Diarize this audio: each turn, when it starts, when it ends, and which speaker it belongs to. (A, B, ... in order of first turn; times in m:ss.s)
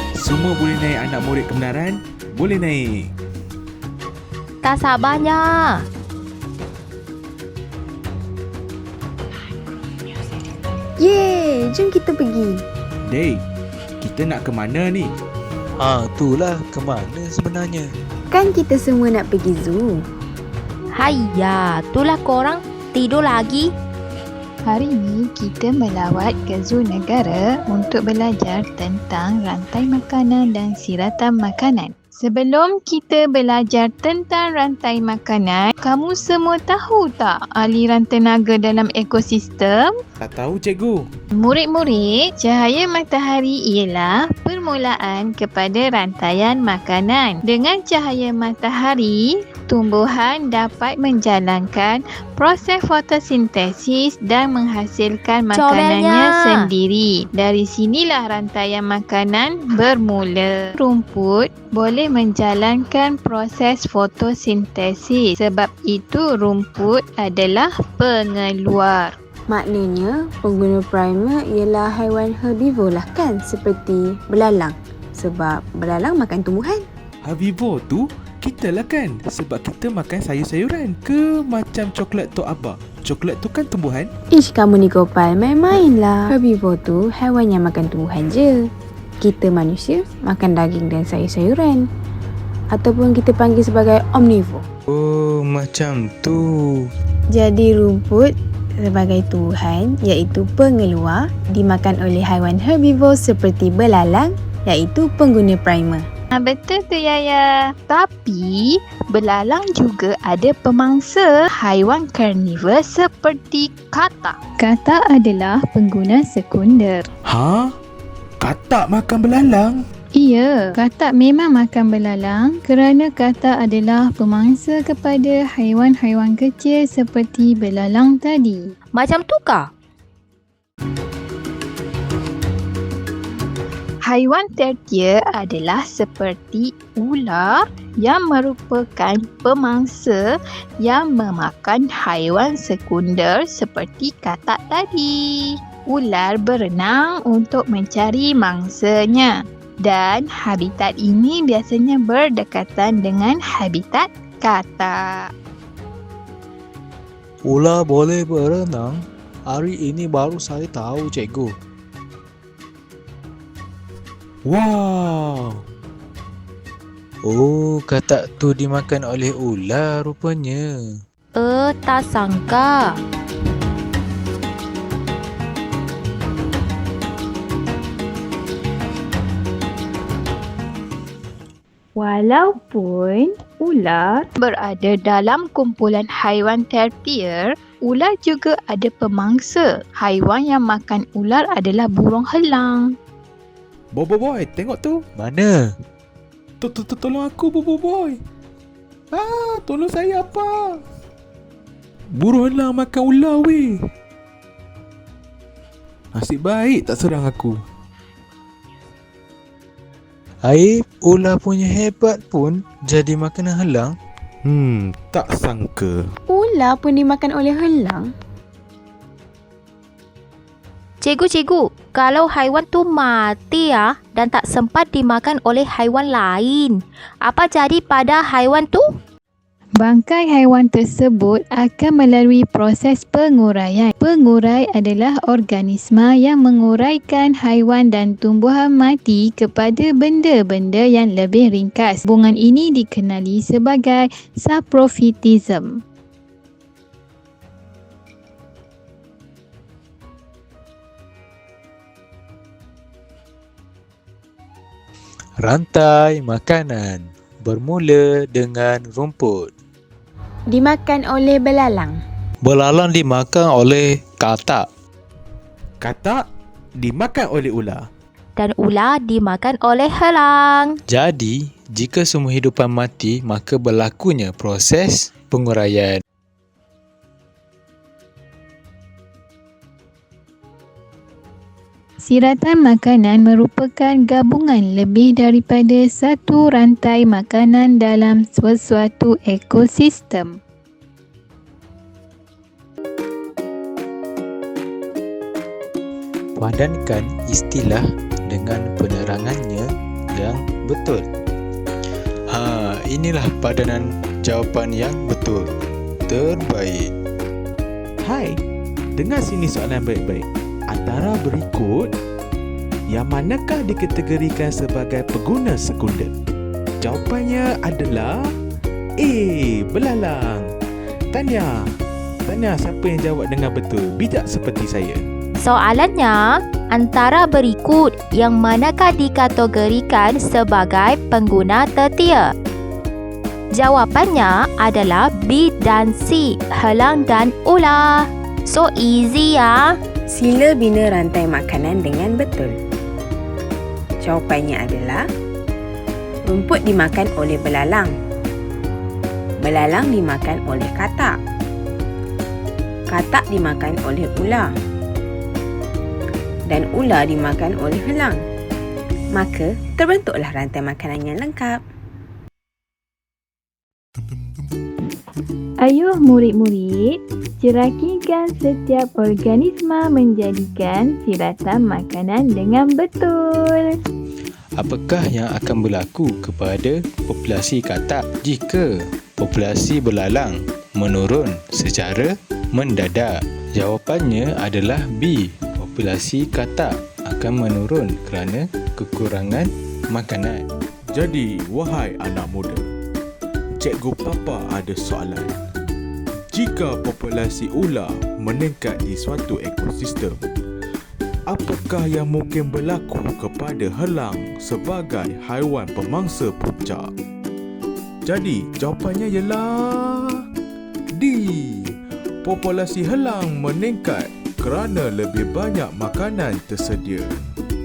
0:00.2-0:03.1 A
0:04.6-0:05.8 B
0:11.0-0:12.6 C
0:13.1-0:13.4 A
0:14.0-0:15.1 A
0:15.8-0:17.9 D
0:18.3-0:20.0 C
0:21.0-0:23.7 B
0:24.6-0:39.9 E
0:40.2-0:41.0 A
0:41.4-1:09.1 E
0:55.5-0:56.7 B
1:09.5-1:16.8 C
1:17.2-1:24.1 A
1:24.4-1:28.5 C
1:29.2-1:31.8 C
1:32.7-1:34.6 C
1:34.9-1:36.4 D
1:37.3-1:38.3 C
1:38.8-1:46.0 C
1:46.3-1:57.1 E
1:57.2-1:57.7 A
1:58.4-1:59.8 A
2:00.1-2:08.7 E
2:08.9-2:09.7 B
2:14.0-2:20.2 E
2:20.8-2:29.3 E
2:29.8-2:35.2 E
2:37.4-2:39.0 D
2:39.5-2:41.5 D
2:44.4-2:45.6 A
2:47.2-2:50.9 D
2:51.3-2:52.9 B
3:02.0-3:12.9 E
3:13.9-3:15.0 A
3:15.2-3:15.7 D
3:16.6-3:18.2 A
3:19.1-3:20.8 A
3:22.1-3:23.8 A
3:26.1-3:27.6 A
3:30.4-3:33.9 D
3:34.4-3:36.1 A
3:36.3-3:38.1 C
3:41.0-3:48.9 B
3:49.8-4:05.7 E
4:15.4-4:19.5 D
4:20.5-4:22.0 C
4:22.4-4:24.6 D
4:25.8-4:26.2 A
4:26.8-4:27.9 A
4:28.4-4:30.8 B
4:30.9-4:36.0 D
4:42.0-4:50.3 E
4:56.4-5:01.0 D
5:02.3-5:05.4 D
5:06.1-5:06.9 D
5:08.0-5:08.3 A
5:09.0-5:11.9 A
5:12.9-5:16.1 A
5:16.8-5:18.1 A
5:19.0-5:20.4 A
5:21.1-5:21.5 A
5:22.2-5:25.0 A
5:25.4-5:32.3 B
5:33.5-5:39.8 B
5:40.1-5:42.5 C
5:44.0-5:45.0 C
5:46.3-5:47.9 C
5:49.4-5:51.2 C
5:52.9-5:54.5 C
5:56.5-5:58.2 C
5:59.1-6:01.6 C
6:05.6-6:13.7 E
6:14.6-6:30.4 D
6:30.9-6:32.6 A
6:33.6-6:35.3 A
6:36.3-6:40.2 A
6:41.3-6:46.9 A
6:48.0-6:50.2 A
6:51.0-6:57.3 A